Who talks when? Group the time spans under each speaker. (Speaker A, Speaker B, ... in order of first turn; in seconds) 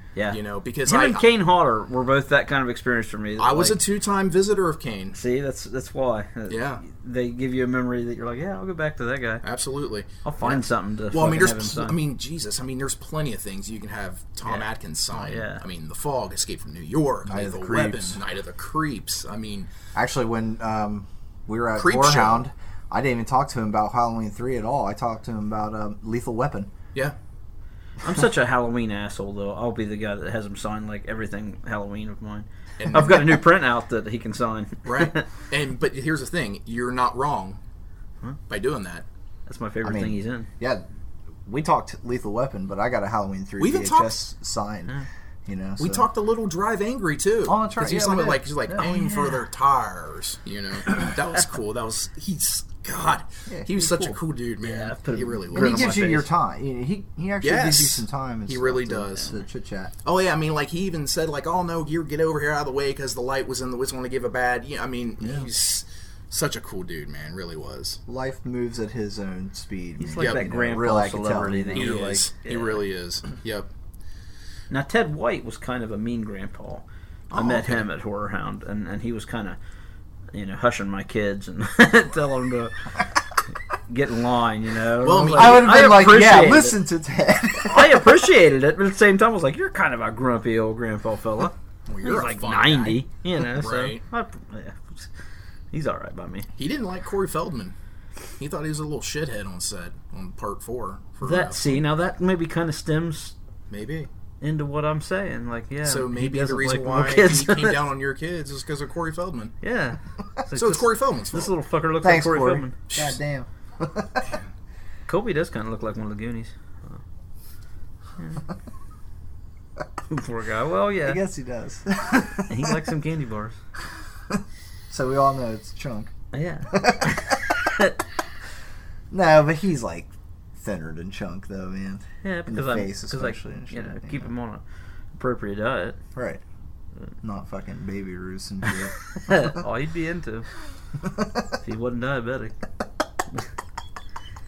Speaker A: 0.2-3.8, 5.1-9.4, 10.2-12.0, 14.5-15.6, 28.0-35.2, 39.5-40.5, 48.8-49.4, 54.6-56.3, 70.0-72.8, 74.7-79.6, 80.3-82.8, 83.9-86.8, 87.6-95.1, 95.7-96.5, 101.2-103.3, 104.4-107.8, 109.6-112.8, 115.1-117.0, 118.2-118.4, 120.1-121.2, 122.5-123.6, 126.3-128.0, 132.2-134.6, 135.2-136.0, 139.2-140.5, 141.6-142.6
Speaker B: 0.3-1.3, 3.4-5.2, 6.5-6.8, 9.4-19.7, 21.8-22.5, 32.8-33.4, 34.9-37.6, 38.5-39.1, 43.6-44.2, 45.8-56.0, 57.4-59.3, 60.0-68.0, 70.2-70.5, 71.8-73.7, 77.3-77.8, 85.0-86.6, 91.9-94.0, 96.6-97.8, 98.4-101.8, 103.7-104.1, 105.8-109.5, 110.5-111.5, 112.9-113.2
Speaker C: 17.2-18.2, 19.9-26.7, 39.8-40.8, 41.5-44.9, 45.5-46.1, 47.5-48.8, 53.5-54.2, 55.5-59.9, 65.2-65.5, 68.1-72.0, 85.3-88.1, 112.0-114.2, 121.0-122.7, 124.3-126.1, 126.7-127.5, 129.1-134.3, 136.2-136.4, 137.2-139.6